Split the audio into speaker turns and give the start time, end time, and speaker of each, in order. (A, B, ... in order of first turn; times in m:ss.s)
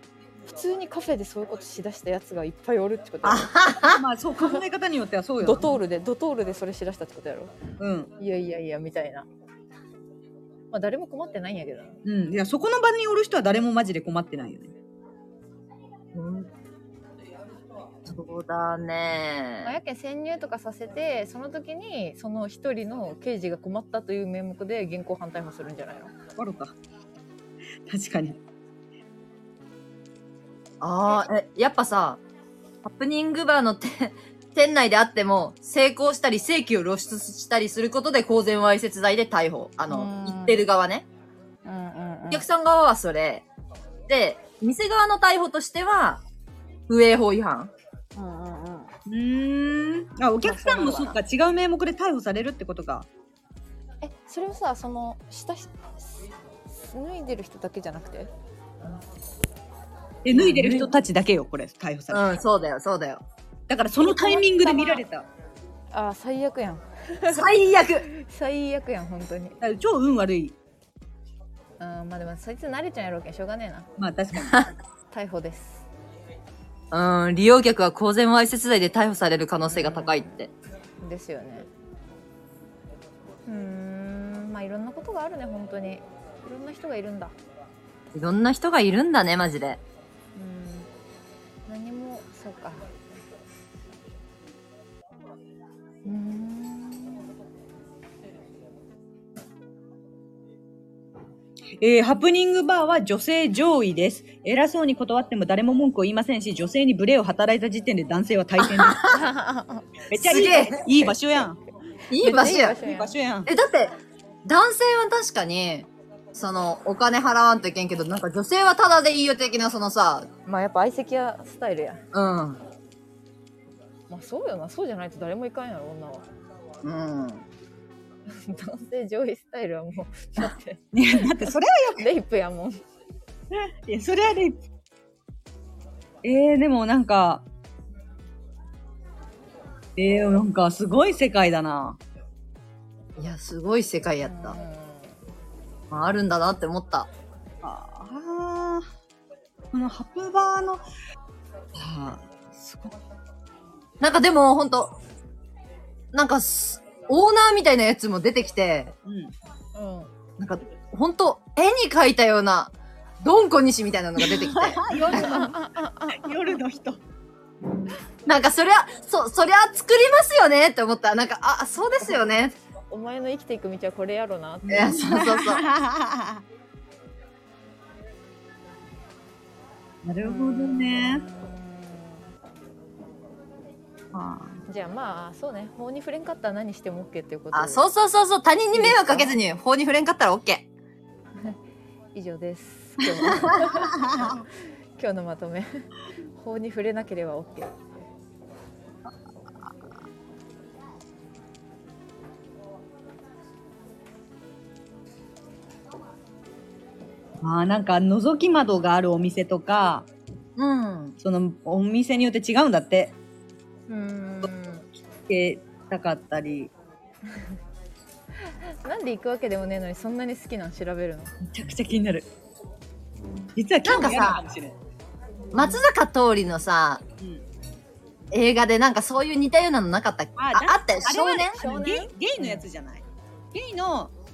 0:00.5-0:03.5 A
0:03.2-0:04.0 B
0:03.9-0:05.7 C
0:05.4-0:07.5 A
0:07.8-0:08.1 C
0:08.2-0:09.3 A
0:10.7-0:12.0 A
0:12.0-0:14.7 C
0:16.1-0:16.5 B
0:18.1-0:19.8 B
0:19.6-0:26.1 A
0:26.4-0:26.8 C
0:27.9-0:28.4 C
0:30.8-0:32.2 B
0:32.8-0:41.0 B
0:39.9-0:40.6 A
0:41.6-0:42.5 A
0:42.3-0:43.4 B
0:44.1-0:46.2 B
0:46.9-0:47.7 B
0:48.1-0:48.9 A
0:49.0-0:53.1 C
0:50.4-0:51.2 A
0:54.0-0:58.3 A
1:00.2-1:02.4 C
1:00.3-1:00.9 B
1:02.1-1:03.2 B
1:03.7-1:05.2 C
1:04.0-1:05.0 A
1:05.9-1:09.6 A
1:07.3-1:08.0 B
1:09.6-1:10.5 C
1:11.8-1:13.9 A
1:14.0-1:14.7 C
1:14.4-1:14.7 B
1:15.1-1:15.8 A
1:16.9-1:20.5 B
1:19.7-1:20.4 A
1:21.0-1:21.7 A
1:23.4-1:27.3 A
1:28.1-1:29.8 B
1:30.3-1:30.9 A
1:31.6-1:32.9 A
1:36.0-1:37.3 A
1:41.8-1:49.0 C
1:48.6-1:49.2 B
1:49.1-1:49.9 A
1:50.1-1:51.6 C
1:50.1-1:51.1 B
1:52.1-1:52.8 B
1:52.2-1:53.1 A
1:52.7-1:53.5 C
1:53.4-2:00.3 B
2:00.4-2:02.0 A
2:02.1-2:02.6 B
2:04.1-2:06.2 A
2:06.8-2:07.4 B
2:08.3-2:12.8 A
2:10.9-2:12.1 C
2:13.5-2:14.6 C
2:16.2-2:17.4 C
2:20.0-2:22.0 C
2:23.2-2:24.6 B
2:24.2-2:25.2 A
2:25.9-2:27.1 B
2:27.6-2:28.9 C
2:29.7-2:30.8 C
2:31.7-2:32.9 C
2:34.0-2:35.0 B
2:36.1-2:38.9 B
2:39.0-2:39.3 C
2:39.7-2:40.1 A
2:40.4-2:45.3 B
2:44.2-2:45.6 C
2:44.9-2:46.4 A
2:46.1-2:47.0 C
2:48.2-2:52.5 B
2:52.9-2:55.4 A
2:54.6-2:56.4 C
2:54.7-2:55.6 B
3:00.0-3:01.2 C
3:00.2-3:02.2 A
3:04.1-3:04.6 C
3:04.7-3:07.9 A
3:07.5-3:10.7 B
3:08.7-3:09.3 A
3:12.1-3:14.4 A
3:13.0-3:14.4 C
3:15.0-3:17.7 A
3:27.4-3:30.1 C
3:30.6-3:31.2 B
3:31.2-3:33.1 C
3:33.9-3:34.9 A
3:35.3-3:36.7 C
3:38.4-3:41.3 A
3:41.4-3:42.3 C
3:43.5-3:44.8 C
3:43.8-3:44.4 B
3:45.5-3:47.0 B
3:45.6-3:45.8 A
3:48.3-3:51.6 B
3:50.4-3:54.1 C
3:51.5-3:52.7 A